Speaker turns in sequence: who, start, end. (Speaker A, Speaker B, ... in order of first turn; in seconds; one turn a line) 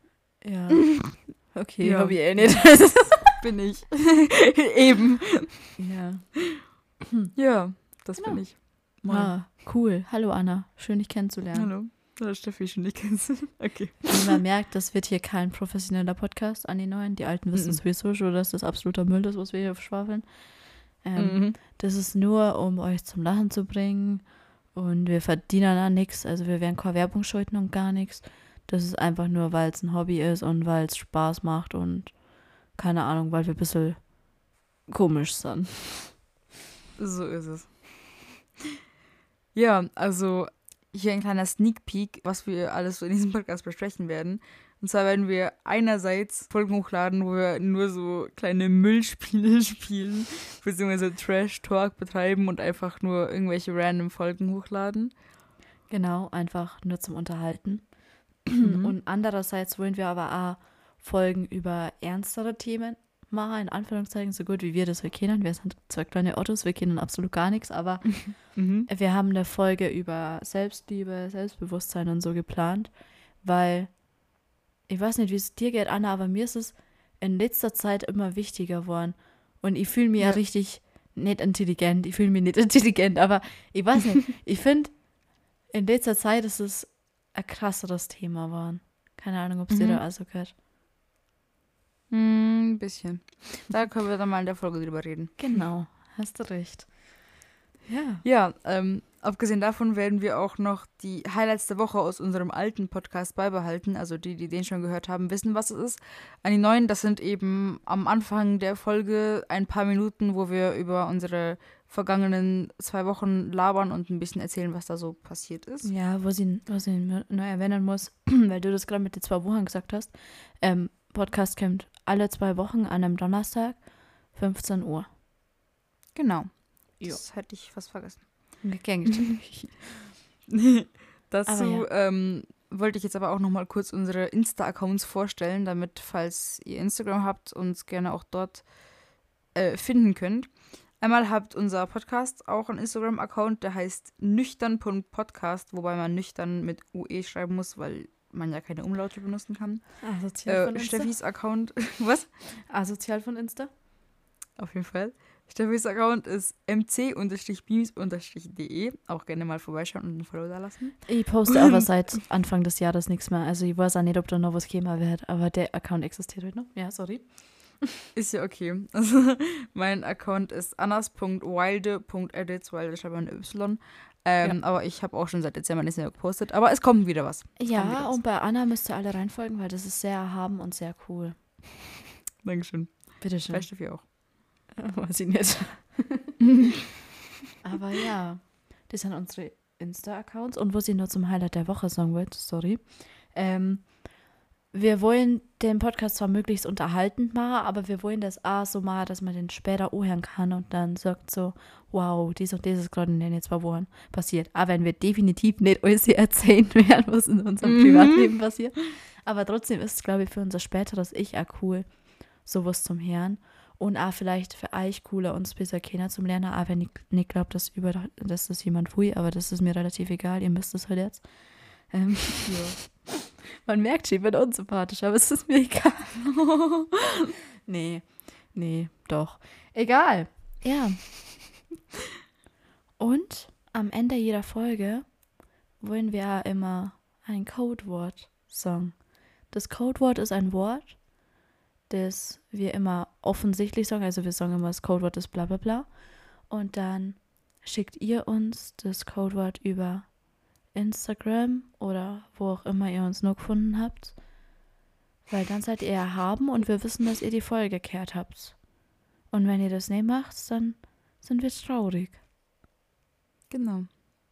Speaker A: 0.4-3.4
Speaker B: 1.8-5.6
Speaker A: 5.8-7.3
Speaker B: 7.3-9.4
Speaker A: 8.1-11.8
Speaker B: 11.5-14.4
Speaker A: 14.1-36.1
Speaker B: 17.5-17.8
Speaker B: 21.1-21.6
Speaker B: 37.0-38.2
Speaker B: 39.5-55.1
Speaker A: 55.9-90.5
Speaker B: 58.6-58.9
Speaker B: 68.3-68.9
Speaker B: 89.7-90.0
Speaker B: 92.1-95.7
Speaker A: 95.4-97.2
Speaker A: 97.8-98.2
Speaker B: 98.2-115.9
Speaker A: 115.8-125.1
Speaker B: 126.1-128.8
Speaker A: 128.6-129.8
Speaker B: 130.5-152.4
Speaker A: 131.4-131.8
Speaker A: 150.0-151.1
Speaker A: 152.6-153.7
Speaker B: 154.6-161.4
Speaker A: 161.1-168.1
Speaker B: 168.1-178.2
Speaker A: 177.6-181.4
Speaker B: 182.4-184.1
Speaker A: 183.2-184.1
Speaker A: 184.8-186.4
Speaker A: 187.6-223.1
Speaker B: 207.6-208.3
Speaker B: 222.4-222.9
Speaker A: 223.6-226.4
Speaker B: 226.4-226.9
Speaker A: 227.6-231.6
Speaker A: 233.0-254.6
Speaker A: 255.3-262.2
Speaker B: 263.5-263.9